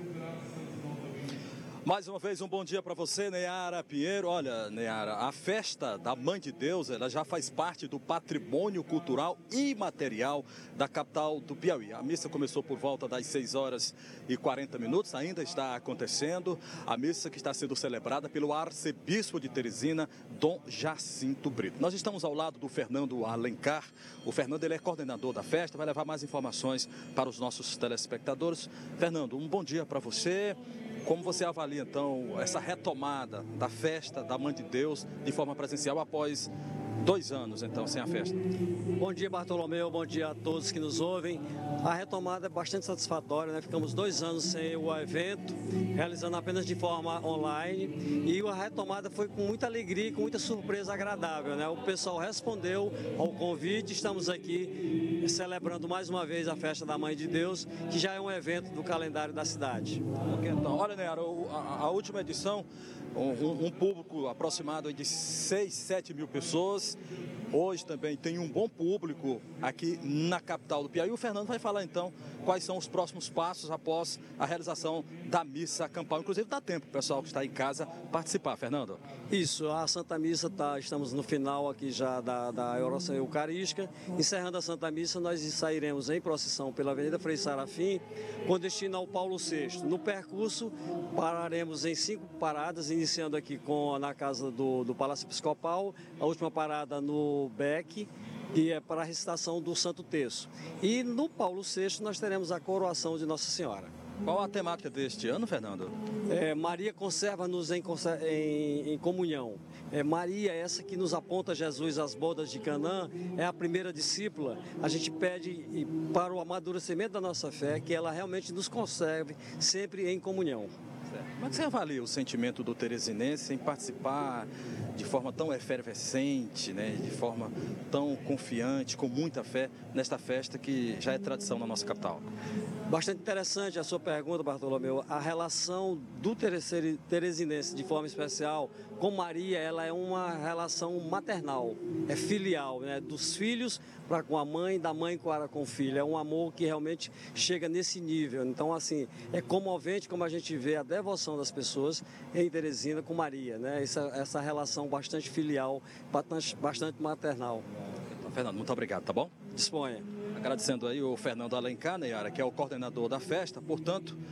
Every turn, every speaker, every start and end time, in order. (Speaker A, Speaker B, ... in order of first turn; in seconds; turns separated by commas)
Speaker A: 1.8-36.5, Speaker A: 37.0-38.4, Speaker B: 39.0-60.0, Speaker A: 60.2-67.0, Speaker A: 67.5-79.0, Speaker B: 79.3-103.9, Speaker A: 104.2-105.9, Speaker B: 106.3-120.7, Speaker A: 121.4-132.2, Speaker B: 132.9-157.6, Speaker A: 158.1-159.3, Speaker B: 159.5-160.1, Speaker A: 160.3-164.2